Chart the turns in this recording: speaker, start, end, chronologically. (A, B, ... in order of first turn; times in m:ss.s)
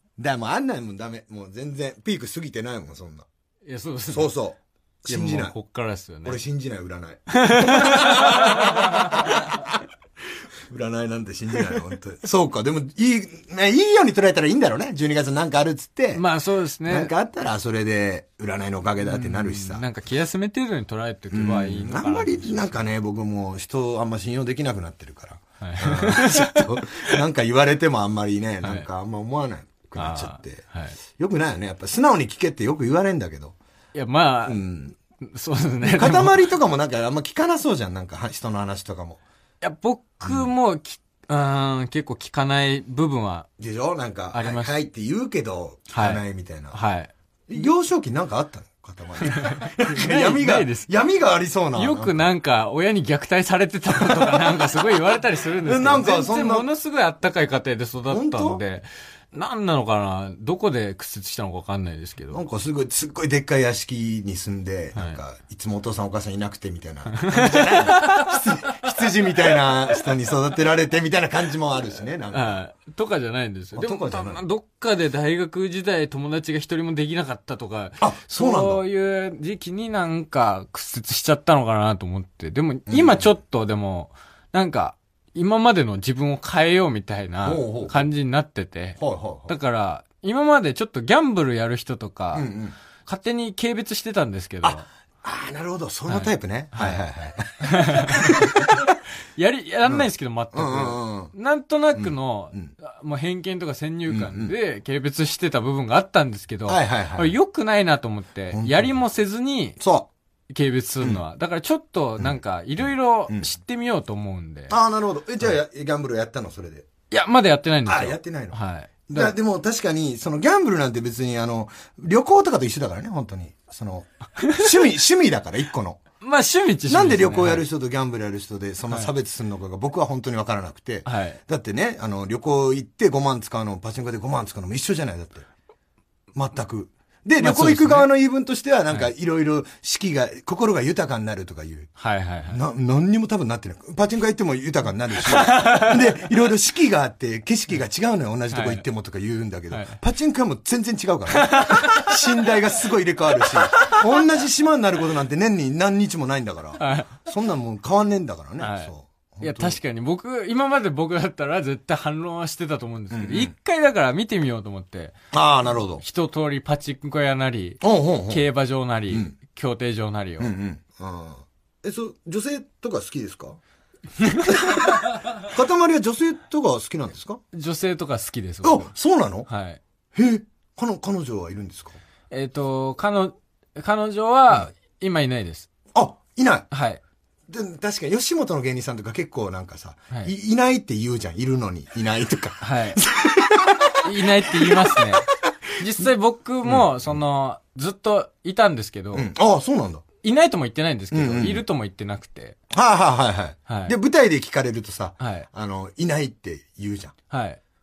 0:00.2-0:03.3 A
0:03.7-0:04.3 B
0:04.1-0:05.6 A
0:05.1-0:06.4 B
0:06.2-0:09.8 A
0:07.4-0:09.3 B
0:10.7-0:16.2 A
0:16.1-0:17.1 B
0:16.8-0:19.8 A
0:19.0-0:22.8 B
0:21.3-0:30.7 A
0:25.6-0:27.2 B
0:28.6-0:28.9 B
0:30.0-0:31.0 B
0:31.2-0:33.6 A
0:33.9-0:34.6 B
0:34.5-0:35.0 A
0:35.2-0:36.5 B
0:35.8-0:39.2 A
0:39.6-0:43.5 B
0:43.6-0:46.8 A
0:44.3-0:44.7 B
0:45.9-0:47.1 B
0:47.5-0:52.3 A
0:49.2-0:50.9 B
0:51.8-1:02.4 B
0:53.9-0:54.6 A
0:55.6-0:56.7 A
0:58.1-0:58.6 A
1:02.3-1:12.6 A
1:07.2-1:08.7 B
1:12.3-1:32.5 B
1:13.8-1:14.4 A
1:18.0-1:18.8 A
1:22.9-1:23.4 A
1:27.4-1:28.0 A
1:29.0-1:29.5 A
1:32.3-1:32.8 A
1:33.0-1:34.9 B
1:34.6-1:38.9 A
1:36.1-1:37.1 B
1:37.6-1:49.8 B
1:39.8-1:41.3 A
1:41.9-1:42.7 A
1:44.1-1:44.5 A
1:46.7-1:47.4 A
1:48.5-1:49.0 A
1:49.8-1:50.1 A
1:50.5-1:54.8 B
1:52.2-1:53.5 A
1:54.7-1:56.9 A
1:57.1-1:59.4 B
1:57.9-2:06.0 A
2:04.4-2:04.7 B
2:06.2-2:07.6 B
2:06.9-2:15.5 A
2:11.0-2:11.4 B
2:16.3-2:21.9 A
2:17.4-2:18.1 B
2:22.0-2:22.6 B
2:22.5-2:39.8 A
2:25.1-2:26.2 B
2:28.5-2:28.8 B
2:29.7-2:30.0 B
2:31.3-2:32.2 B
2:33.4-2:34.0 B
2:36.8-2:37.2 B
2:38.6-2:45.2 B
2:43.1-2:43.5 A
2:45.3-2:46.0 A
2:46.0-2:50.6 B
2:47.8-2:48.4 A
2:50.4-2:53.6 A
2:54.2-2:55.0 B
2:54.5-2:57.4 A
2:57.5-2:58.9 B
2:58.6-2:59.5 A
2:59.5-2:59.8 B
3:00.2-3:02.0 A
3:02.3-3:05.7 B
3:06.0-3:06.7 A
3:06.7-3:07.0 B
3:07.5-3:15.1 A
3:12.6-3:13.0 B
3:14.0-3:19.3 B
3:16.6-3:17.2 A
3:19.1-3:20.0 A
3:20.2-3:22.6 B
3:21.1-3:21.6 A
3:22.7-3:27.2 A
3:23.7-3:24.0 B
3:25.2-3:25.5 B
3:27.3-3:27.6 B